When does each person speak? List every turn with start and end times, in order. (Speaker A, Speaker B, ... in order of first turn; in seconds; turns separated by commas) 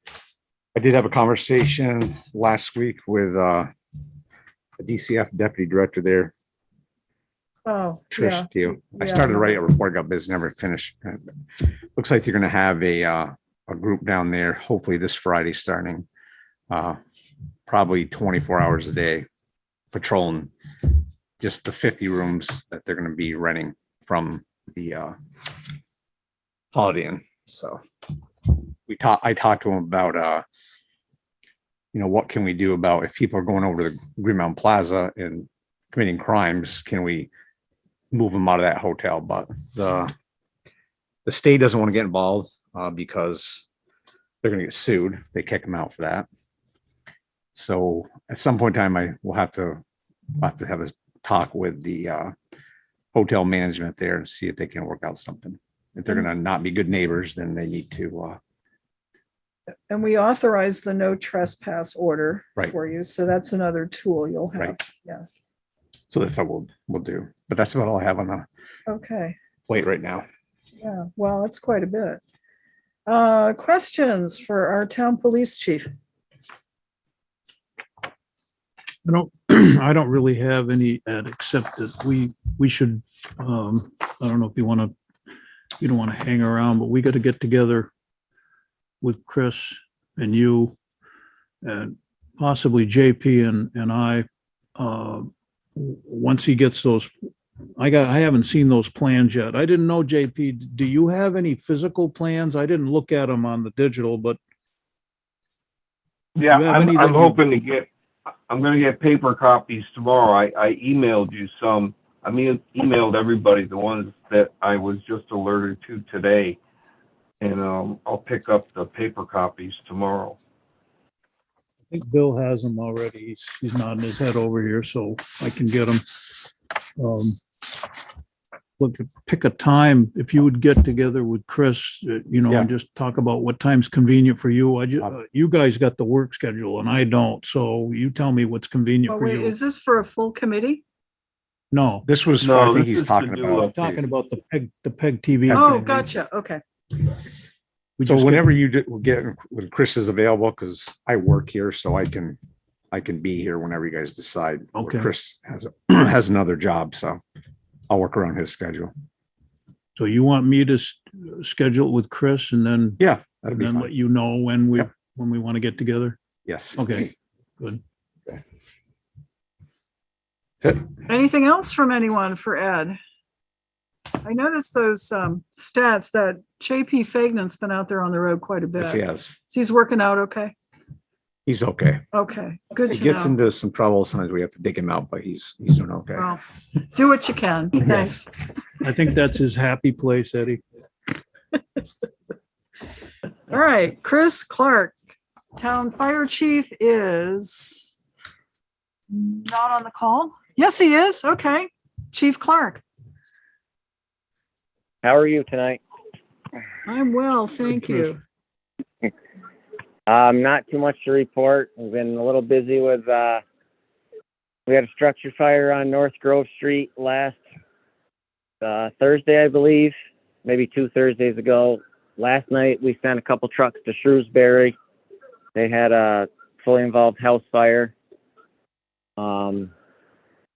Speaker A: 0.7-3.7, Speaker A: 4.8-6.3, Speaker B: 7.6-9.6, Speaker A: 8.1-16.1, Speaker A: 16.7-17.0, Speaker A: 17.7-19.3, Speaker A: 19.9-20.5, Speaker A: 21.4-25.5, Speaker A: 26.7-27.8, Speaker A: 28.9-30.4, Speaker A: 31.9-37.3, Speaker A: 38.1-40.1, Speaker A: 41.2-43.6, Speaker A: 44.4-46.3, Speaker A: 47.5-49.8, Speaker A: 50.4-52.3, Speaker A: 53.1-58.4, Speaker B: 59.9-65.2, Speaker A: 66.1-68.5, Speaker B: 68.9-69.4, Speaker A: 69.7-70.2, Speaker B: 70.8-72.2, Speaker B: 73.1-75.9, Speaker C: 79.0-84.9, Speaker C: 85.8-87.9, Speaker C: 89.0-90.8, Speaker C: 91.6-97.1, Speaker C: 97.8-104.4, Speaker D: 106.3-107.9, Speaker C: 106.5-107.4, Speaker D: 108.5-116.6, Speaker D: 117.4-120.4, Speaker C: 121.9-126.5, Speaker C: 127.0-127.4, Speaker C: 128.8-139.5, Speaker B: 139.1-140.8, Speaker C: 141.7-142.1, Speaker A: 142.1-143.9, Speaker D: 142.4-143.9, Speaker C: 143.8-145.9, Speaker A: 145.5-146.1, Speaker B: 145.5-146.6, Speaker C: 148.0-148.5, Speaker A: 148.0-152.4, Speaker A: 152.9-157.2, Speaker C: 154.7-155.1, Speaker A: 157.9-158.9, Speaker C: 159.9-163.0, Speaker A: 163.0-163.9, Speaker C: 163.5-166.2, Speaker A: 166.4-166.8, Speaker C: 166.8-167.8, Speaker B: 171.1-173.0, Speaker B: 174.2-180.5, Speaker A: 178.8-179.3, Speaker A: 181.4-182.0, Speaker B: 182.1-183.3, Speaker A: 182.9-186.4, Speaker B: 186.2-188.3, Speaker C: 188.8-190.6, Speaker B: 193.5-195.0, Speaker B: 195.5-198.0, Speaker B: 199.1-202.8, Speaker E: 205.0-205.8, Speaker B: 206.8-208.2, Speaker E: 210.1-213.4, Speaker E: 214.7-217.4, Speaker E: 218.6-224.7, Speaker E: 225.5-227.9, Speaker E: 229.2-229.7